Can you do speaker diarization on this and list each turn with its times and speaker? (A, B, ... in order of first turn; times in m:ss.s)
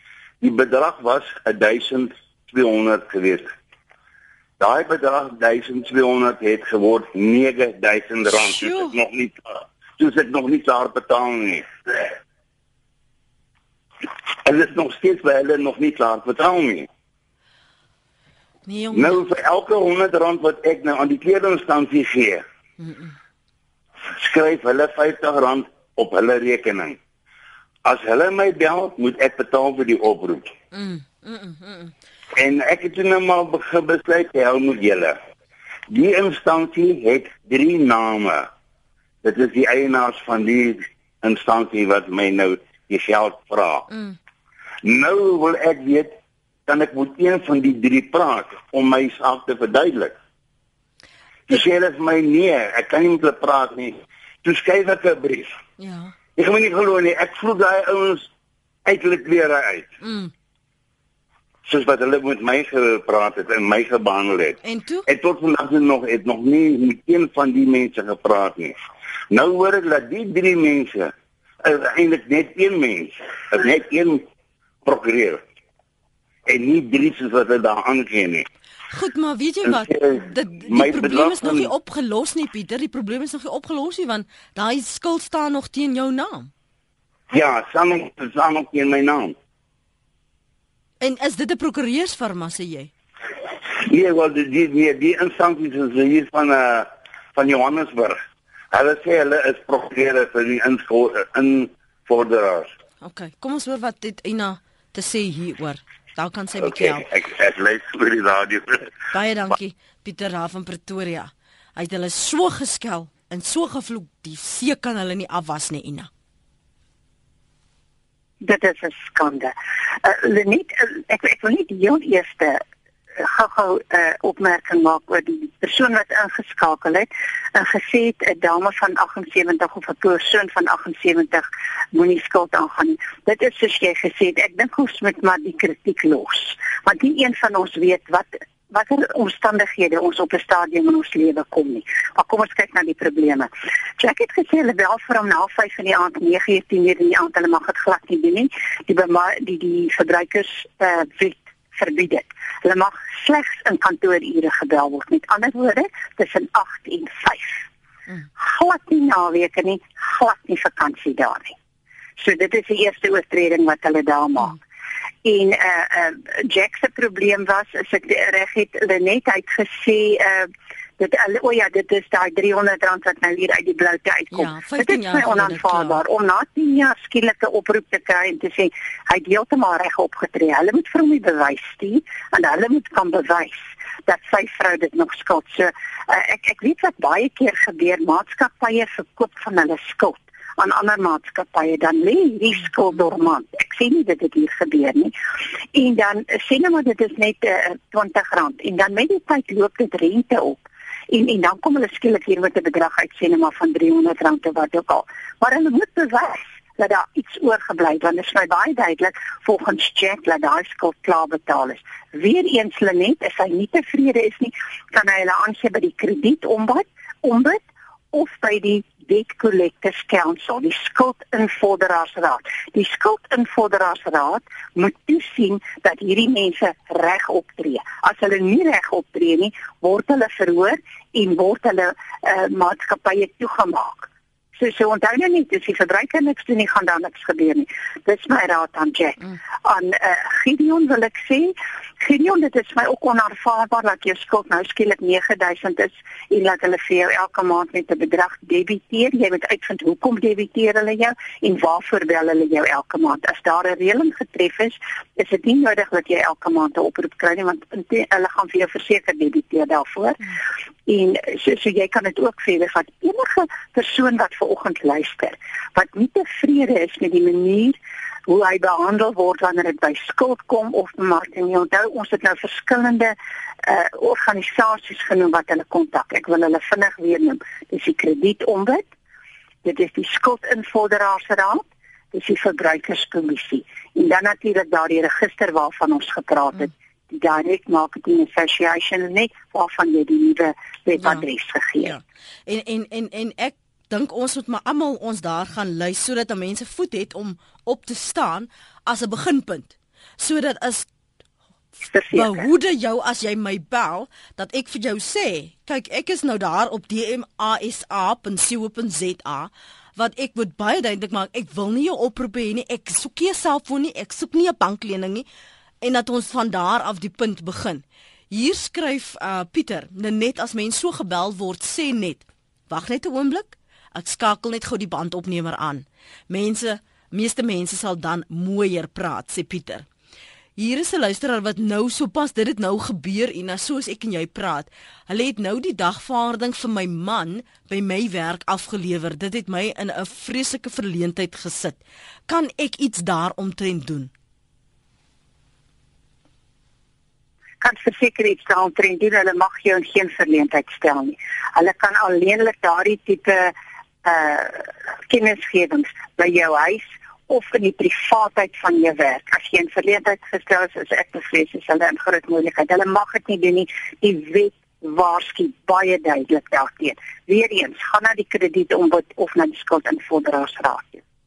0:00.4-0:03.4 A
0:04.6-0:12.1 A
0:08.3-0:09.0 B
0:14.4-0:16.9 A
0:18.7-0:19.2 B
0:18.9-0:22.4 A
0:22.8-0:23.1 B
0:24.0-0:27.0 A
0:27.8-0:30.5 A
0:30.7-0:31.9 B
0:32.4-0:35.2 A
0:35.9-0:38.5 A
0:39.2-0:43.9 A
0:43.9-0:44.2 B
0:44.8-0:46.1 A
0:46.7-0:50.1 A
0:51.5-0:55.5 A
0:55.8-0:56.1 B
0:56.4-0:58.3 A
0:58.8-0:59.9 A
1:00.0-1:00.3 B
1:01.6-1:08.7 A
1:04.6-1:05.1 B
1:09.3-1:14.2 A
1:14.8-1:15.4 A
1:16.5-1:18.5 A
1:18.9-1:26.5 B
1:19.6-1:21.7 A
1:27.3-1:29.3 A
1:31.0-1:32.9 B
1:33.8-1:38.2 A
1:38.7-1:42.7 A
1:43.0-1:47.1 B
1:46.6-1:48.9 A
1:49.1-1:56.1 B
1:58.4-2:02.6 C
2:03.2-2:37.6 C
2:38.4-2:41.5 C
2:42.2-2:44.6 C
2:45.2-3:15.1 C
2:54.3-2:56.0 B
3:15.7-3:37.6 C
3:38.1-4:38.9 C
4:39.6-4:51.9 C
4:51.0-4:51.2 B
4:51.8-5:00.8 B
5:01.9-5:02.4 C
5:02.1-5:15.2 B
5:15.8-5:29.8 B
5:30.6-5:44.1 B
5:47.6-6:11.0 C